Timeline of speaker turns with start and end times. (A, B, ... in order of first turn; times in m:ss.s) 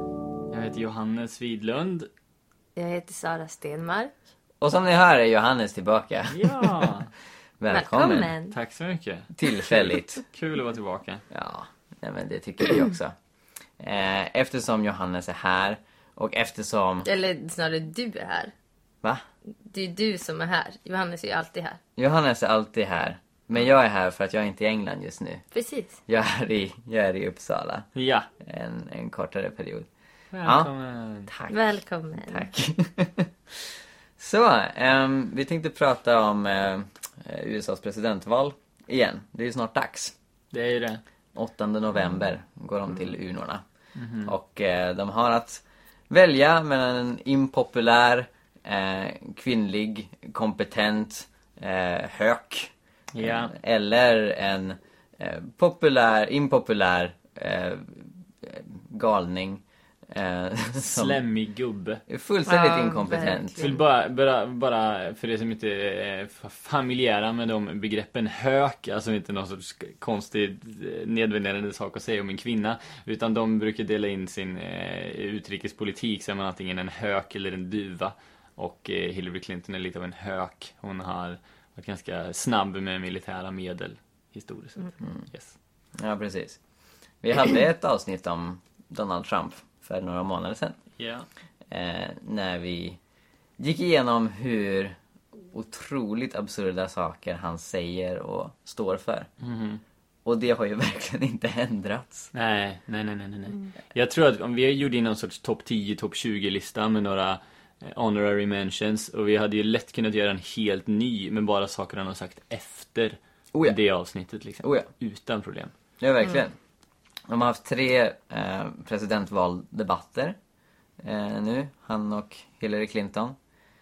0:00.5-0:02.1 A
0:02.8-0:04.1 B
0:04.6-0:07.0 C
0:06.3-0:07.1 A
0:07.6-0:08.3 C
0:07.7-0:08.6 B
0:08.5-0:11.2 A
0:09.4-0:10.2 C
0:11.3-0:13.2 C
0:13.8-0:17.1 C
0:17.0-0:18.5 B
0:19.7-0:21.8 B
0:22.0-0:25.4 C
0:25.5-0:26.0 B
0:26.1-0:27.9 C
0:28.0-0:28.3 A
0:28.4-0:29.9 C
0:30.3-0:31.3 A
0:30.4-0:30.7 C
0:31.3-0:40.1 C
0:31.5-0:32.4 B
0:40.5-0:41.0 A
0:41.4-0:43.6 C
0:44.0-0:44.3 A
0:44.2-1:01.2 C
0:53.1-0:53.5 A
1:00.8-1:02.0 A
1:02.1-1:03.7 C
1:02.5-1:03.8 B
1:03.6-1:25.6 A
1:25.0-1:25.3 C
1:26.0-1:26.6 C
1:27.2-1:30.8 C
1:31.0-1:31.3 A
1:31.7-1:33.0 C
1:33.6-1:35.0 C
1:35.5-1:39.3 C
1:39.4-1:39.8 A
1:40.2-1:42.3 C
1:42.3-1:55.7 A
1:54.6-1:54.9 C
1:56.0-1:56.6 C
1:57.3-2:00.4 C
2:01.0-2:03.4 C